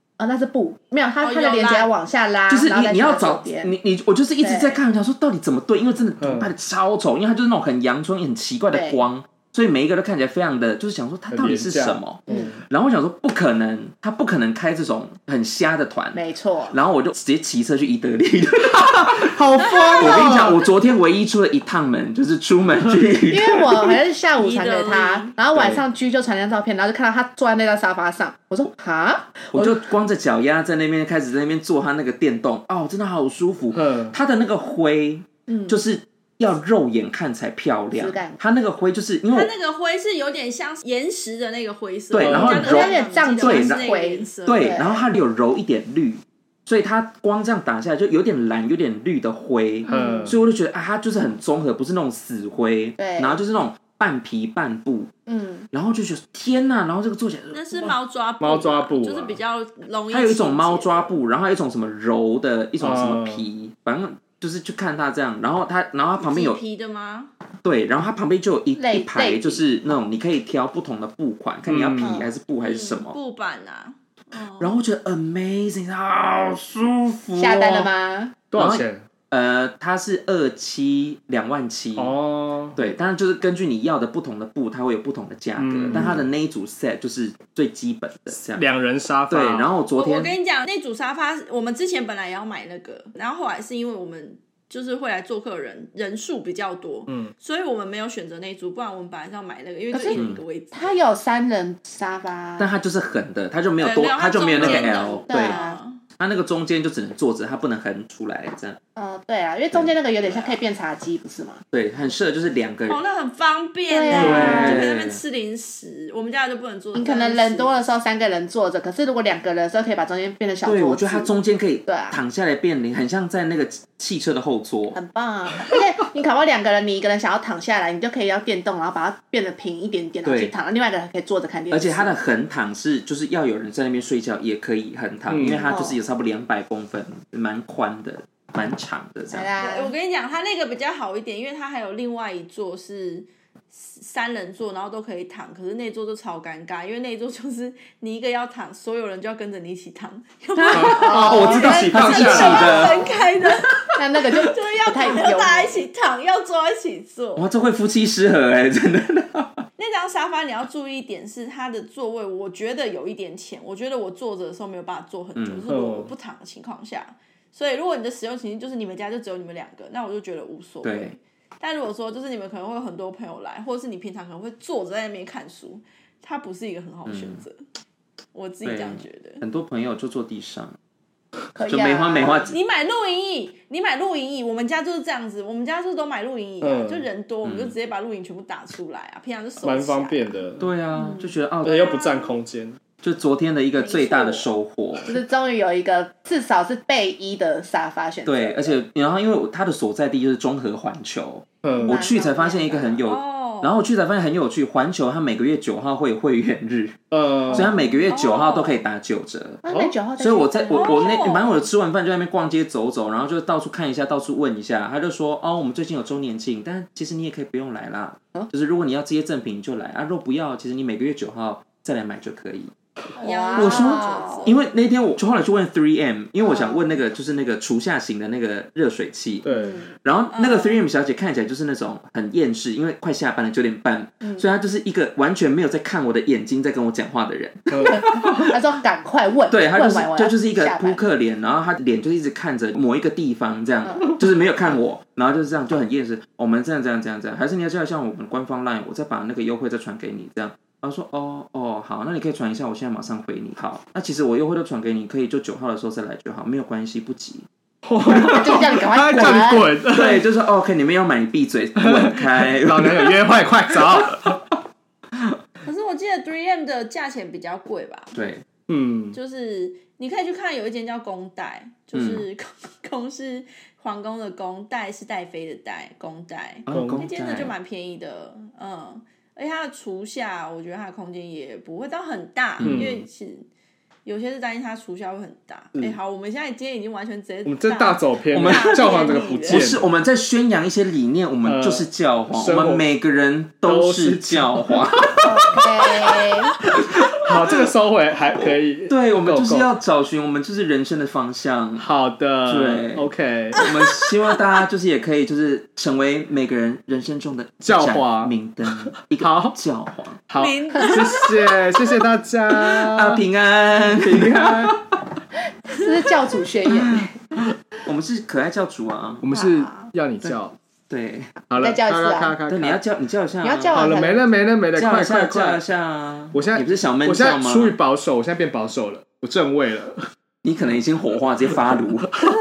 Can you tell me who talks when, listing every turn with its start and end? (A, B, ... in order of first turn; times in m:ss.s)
0:00.2-0:03.7 A
0:01.2-0:01.9 B
0:02.5-0:19.4 C
0:04.4-0:04.8 A
0:06.2-0:06.5 D
0:08.7-0:09.0 A
0:11.3-0:12.6 D
0:12.3-0:12.5 A
0:16.1-0:16.8 A
0:19.2-0:20.6 D
0:19.6-0:20.3 B
0:20.0-0:24.0 C
0:23.3-0:29.8 A
0:24.4-0:25.3 B
0:25.6-0:25.8 D
0:29.5-0:39.5 C
0:33.7-0:34.2 D
0:35.5-0:35.8 A
0:37.9-0:38.4 A
0:39.3-0:44.8 B
0:42.1-0:44.0 C
0:42.2-0:42.7 D
0:42.4-0:45.1 A
0:44.5-0:55.1 C
0:49.9-0:50.4 A
0:49.9-0:50.4 D
0:53.0-0:53.4 A
0:55.3-0:55.7 A
0:55.7-0:57.6 C
0:57.5-1:01.2 B
0:58.4-0:59.4 D
1:00.1-1:06.6 C
1:02.8-1:03.4 D
1:06.2-1:07.3 B
1:07.6-1:13.2 C
1:08.8-1:09.6 A
1:11.7-1:12.2 D
1:12.0-1:12.3 A
1:12.6-1:14.8 B
1:14.6-1:17.9 C
1:17.4-1:18.4 A
1:18.5-1:19.0 D
1:18.5-1:22.2 C
1:22.0-1:22.8 D
1:22.7-1:28.7 C
1:25.6-1:26.3 D
1:28.6-1:29.7 D
1:29.3-1:30.3 C
1:30.0-1:41.0 B
1:39.9-1:42.7 A
1:40.1-1:40.4 C
1:42.6-1:45.6 C
1:43.8-1:46.0 B
1:44.6-1:44.9 D
1:45.3-1:45.8 A
1:46.2-1:48.8 C
1:49.0-1:51.6 A
1:50.2-1:50.6 B
1:51.7-1:53.0 C
1:52.9-1:57.9 B
1:53.9-1:54.9 A
1:54.1-1:55.2 C
1:54.2-1:54.7 D
1:57.0-2:02.2 A
2:00.6-2:05.0 C
2:04.9-2:12.2 A
2:10.2-2:10.5 C
2:11.7-2:19.5 C
2:15.3-2:15.7 D
2:15.6-2:16.0 A
2:19.3-2:19.9 A
2:19.6-2:37.5 B
2:30.7-2:32.9 A
2:30.7-2:33.1 C
2:30.7-2:33.0 D
2:33.9-2:35.8 A
2:37.4-2:39.7 C
2:39.8-2:57.6 B
2:45.4-2:45.6 C
2:45.7-2:46.1 D
2:50.8-2:51.2 C
2:57.1-2:57.4 C
2:58.3-2:59.4 B
2:58.6-3:00.7 C
3:01.6-3:02.5 A
3:01.7-3:02.5 C
3:02.5-3:10.3 B
3:06.6-3:07.1 D
3:07.4-3:07.7 C
3:09.6-3:10.7 D
3:10.6-3:11.9 C
3:10.9-3:11.4 A
3:11.6-3:12.8 D
3:11.6-3:12.3 B
3:13.0-3:15.2 C
3:13.8-3:14.5 A
3:15.1-3:18.8 A
3:18.2-3:29.6 C
3:21.6-3:22.0 D
3:21.8-3:23.0 A
3:23.1-3:23.8 B
3:27.1-3:27.7 D
3:27.5-3:27.9 A
3:28.1-3:28.8 B
3:29.6-3:31.1 A
3:30.2-3:42.7 C
3:30.7-3:31.7 B
3:43.2-3:44.5 A
3:43.2-3:44.6 B
3:43.6-3:49.5 C
3:46.4-3:46.9 A
3:49.4-3:49.8 D
3:49.5-3:49.9 A
3:50.0-3:58.6 C
3:50.3-3:50.8 B
3:57.7-3:58.0 D
3:57.8-4:01.0 A
3:59.5-4:17.5 C
4:03.8-4:04.2 A
4:17.8-4:20.2 D
4:18.1-4:19.7 A
4:18.1-4:18.6 C
4:19.1-4:24.6 C
4:21.8-4:24.4 D
4:25.1-4:25.4 C
4:25.6-4:28.1 B
4:28.1-4:28.4 C
4:28.7-4:29.2 D
4:29.1-4:43.5 B
4:31.9-4:32.3 C
4:36.7-4:37.6 C
4:36.7-4:37.1 D
4:42.6-4:43.0 C
4:42.6-4:43.0 D
4:44.0-4:49.7 B
4:47.5-4:49.9 D
4:48.3-4:48.9 C
4:49.5-4:55.4 C
4:51.4-4:52.8 D
4:53.7-4:55.5 D
4:55.2-4:56.5 A
4:56.9-4:57.6 C
4:57.1-4:59.7 D
4:58.9-5:01.9 C
5:01.8-5:03.6 D
5:02.4-5:10.2 C
5:03.6-5:04.1 B
5:07.6-5:08.3 D
5:08.9-5:09.6 D
5:10.3-5:13.2 D
5:10.4-5:11.3 B
5:10.7-5:11.3 A
5:12.6-5:15.2 C
5:13.9-5:14.7 D
5:15.7-5:17.1 A
5:16.7-5:19.3 C
5:19.2-5:20.6 D
5:19.3-5:19.9 A
5:20.9-5:21.3 C
5:21.5-5:22.8 D
5:21.6-5:22.4 A
5:22.5-5:23.9 C
5:23.4-5:24.2 A
5:23.7-5:25.6 D
5:24.7-5:27.8 C
5:26.3-5:30.1 D
5:30.4-5:32.1 C